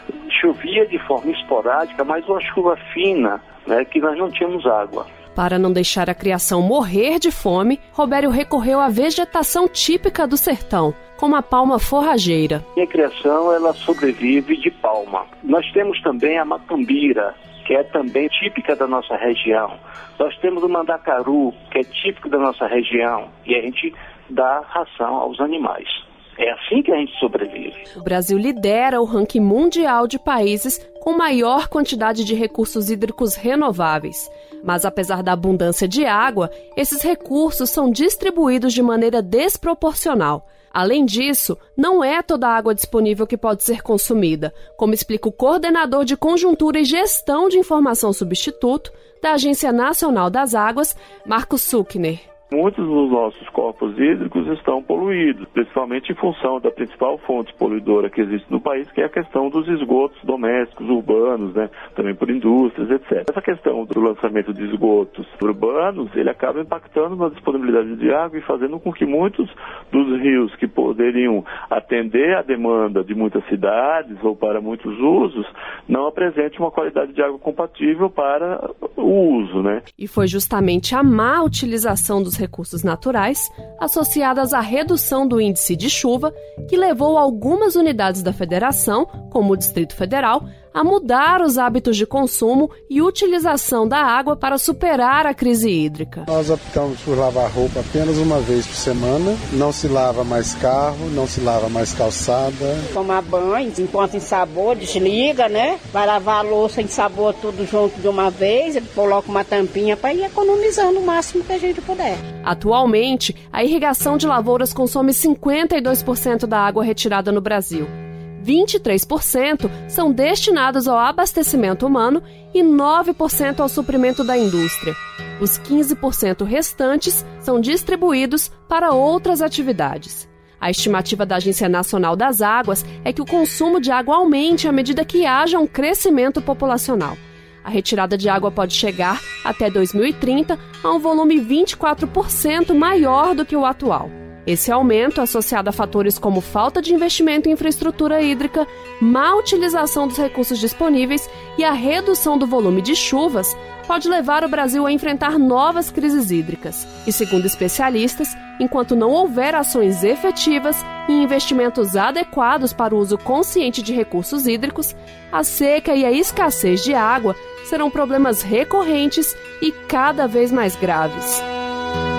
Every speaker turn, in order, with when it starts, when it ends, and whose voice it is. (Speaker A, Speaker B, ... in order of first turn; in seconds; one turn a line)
Speaker A: 0.3-5.1
Speaker B: 5.3-12.6
Speaker A: 12.8-27.9
Speaker B: 27.9-52.2
Speaker C: 52.5-79.8
Speaker B: 80.0-96.3
Speaker D: 96.3-102.9
Speaker E: 102.9-112.2
Speaker B: 112.4-171.4